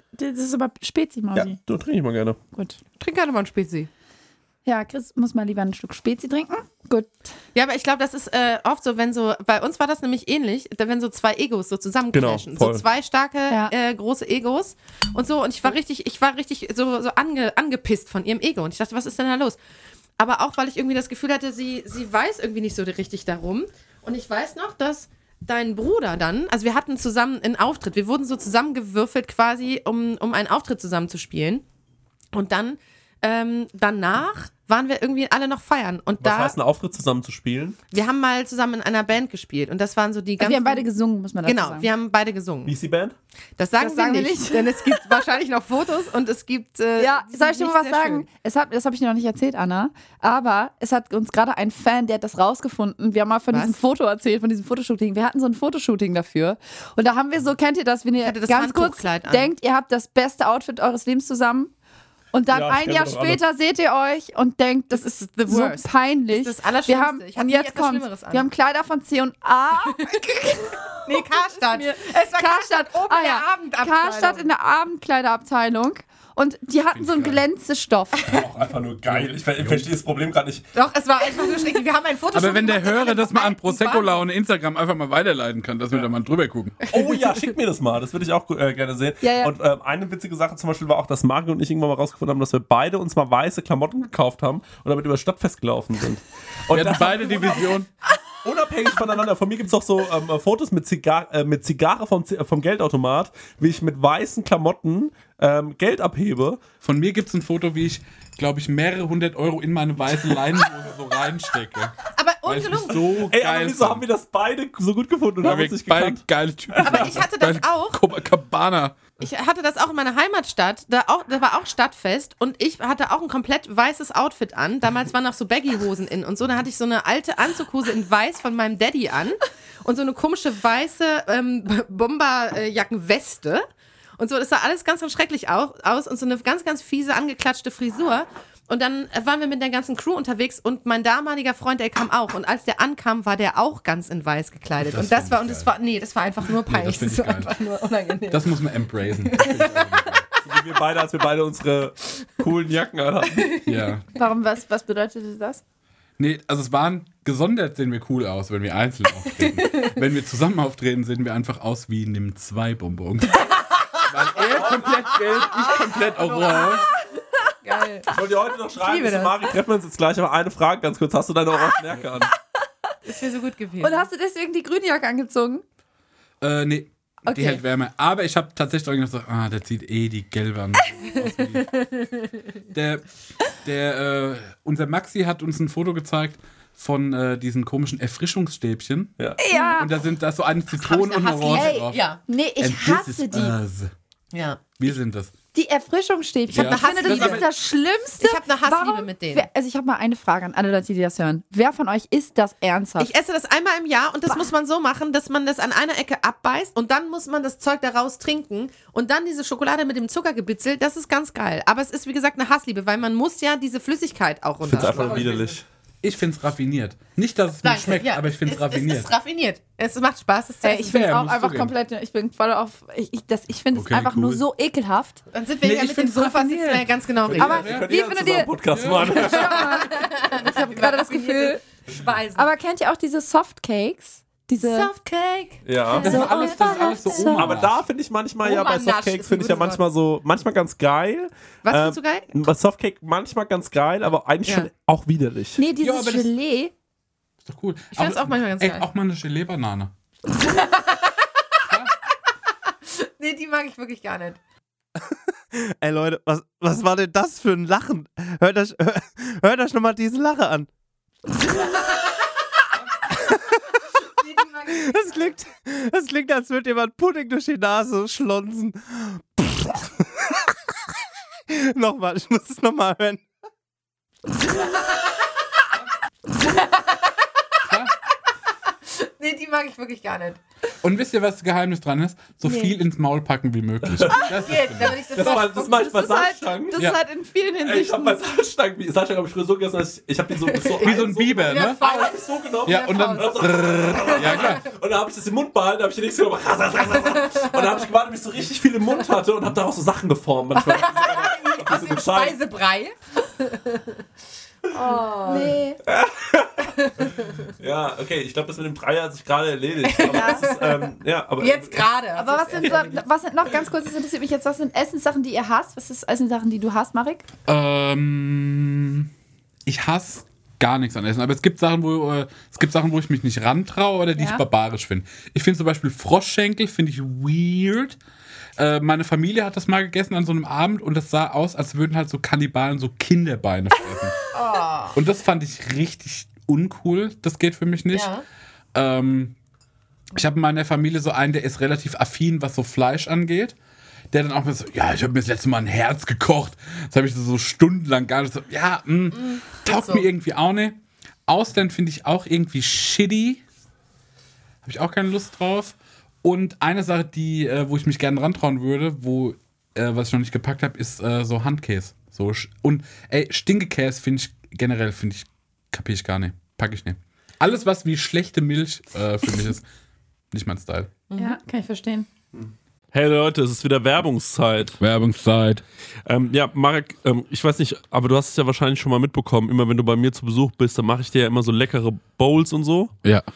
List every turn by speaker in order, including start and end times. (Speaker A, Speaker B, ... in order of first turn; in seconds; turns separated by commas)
Speaker A: 0.1-1.6, Speaker B: 1.3-2.4, Speaker C: 3.0-3.9, Speaker A: 4.7-7.3, Speaker C: 7.5-19.6, Speaker B: 12.1-12.8, Speaker C: 20.2-31.6, Speaker C: 32.3-36.5, Speaker B: 36.2-37.8, Speaker C: 37.9-40.9, Speaker A: 40.4-41.9, Speaker C: 41.5-42.7, Speaker B: 42.7-43.2, Speaker C: 43.6-48.3, Speaker A: 43.8-45.0, Speaker A: 47.0-61.7, Speaker C: 53.5-53.8, Speaker C: 58.2-59.5, Speaker A: 62.3-78.4, Speaker B: 62.5-63.4, Speaker C: 64.9-68.5, Speaker C: 71.0-74.5, Speaker D: 76.9-77.4, Speaker B: 78.3-80.7, Speaker D: 79.1-79.9, Speaker C: 80.7-84.1, Speaker D: 82.3-86.9, Speaker B: 86.9-97.7, Speaker A: 89.2-89.5, Speaker D: 96.7-97.9, Speaker B: 98.4-106.6, Speaker D: 106.8-114.0, Speaker C: 112.1-113.1, Speaker B: 113.3-116.2, Speaker D: 115.4-119.0, Speaker C: 116.8-118.0, Speaker B: 116.8-117.1, Speaker C: 119.2-133.7, Speaker C: 134.2-150.2, Speaker D: 144.8-145.7, Speaker D: 146.6-147.5, Speaker D: 148.3-150.2, Speaker B: 150.4-153.6, Speaker D: 153.6-154.1, Speaker A: 154.2-155.6, Speaker D: 156.2-163.5, Speaker C: 159.6-160.0, Speaker D: 164.1-166.9, Speaker C: 165.7-166.9, Speaker C: 167.6-168.1, Speaker B: 168.1-172.3, Speaker C: 168.8-169.4, Speaker C: 173.1-174.1, Speaker A: 173.8-175.6, Speaker D: 176.4-181.8, Speaker A: 177.3-177.6, Speaker D: 182.7-183.1, Speaker D: 183.6-193.9, Speaker A: 189.4-190.0, Speaker C: 190.8-192.2, Speaker A: 191.5-193.6, Speaker C: 194.3-194.8, Speaker D: 194.8-195.3, Speaker A: 195.5-203.1, Speaker D: 196.5-197.5, Speaker C: 196.5-197.5, Speaker C: 198.2-199.5, Speaker C: 203.0-215.5, Speaker B: 214.6-215.6, Speaker D: 216.0-219.2, Speaker C: 217.6-221.0, Speaker A: 220.6-225.2, Speaker D: 220.8-221.7, Speaker D: 223.7-224.4, Speaker C: 225.3-227.7, Speaker D: 225.6-226.8, Speaker A: 226.3-226.7, Speaker B: 227.3-229.8, Speaker A: 227.4-231.6, Speaker D: 227.4-227.9, Speaker D: 228.7-229.1, Speaker C: 229.1-232.5, Speaker A: 232.4-234.9, Speaker C: 234.6-237.0, Speaker B: 235.7-236.3, Speaker D: 236.0-237.8, Speaker A: 236.0-237.5, Speaker B: 237.3-245.6, Speaker C: 238.4-239.8, Speaker C: 241.7-242.3, Speaker A: 245.6-246.7, Speaker D: 245.8-246.3, Speaker D: 247.4-249.9, Speaker C: 247.9-248.9, Speaker C: 250.6-251.1, Speaker D: 251.7-251.9, Speaker C: 252.9-254.4, Speaker E: 255.5-260.7, Speaker C: 264.1-265.4, Speaker E: 264.9-269.8, Speaker E: 271.5-273.2, Speaker D: 277.6-277.9, Speaker C: 279.0-280.4, Speaker D: 280.8-285.3, Speaker C: 282.4-282.7, Speaker B: 283.9-284.4, Speaker C: 284.1-286.3, Speaker B: 285.1-286.8, Speaker A: 285.5-288.2, Speaker D: 286.8-287.0, Speaker B: 287.6-302.4, Speaker C: 290.6-293.4, Speaker D: 290.8-291.8, Speaker D: 292.7-294.6, Speaker C: 294.1-294.6, Speaker C: 300.6-303.9, Speaker C: 304.7-305.6, Speaker A: 305.2-305.8, Speaker B: 305.9-306.7, Speaker C: 306.8-307.3, Speaker B: 307.6-311.8, Speaker C: 309.8-313.0, Speaker A: 310.1-310.4, Speaker A: 312.2-317.2, Speaker D: 317.5-319.1, Speaker D: 319.7-328.0, Speaker A: 324.2-324.4, Speaker D: 328.6-334.2, Speaker C: 334.3-335.0, Speaker D: 334.9-338.1, Speaker C: 337.9-338.2, Speaker D: 338.7-339.3, Speaker D: 340.1-343.6, Speaker D: 344.1-353.4, Speaker C: 349.2-350.1, Speaker D: 354.6-369.6, Speaker D: 370.3-371.0, Speaker C: 371.1-371.4, Speaker A: 371.2-372.1, Speaker B: 372.3-374.8, Speaker D: 374.8-375.6, Speaker B: 376.1-382.9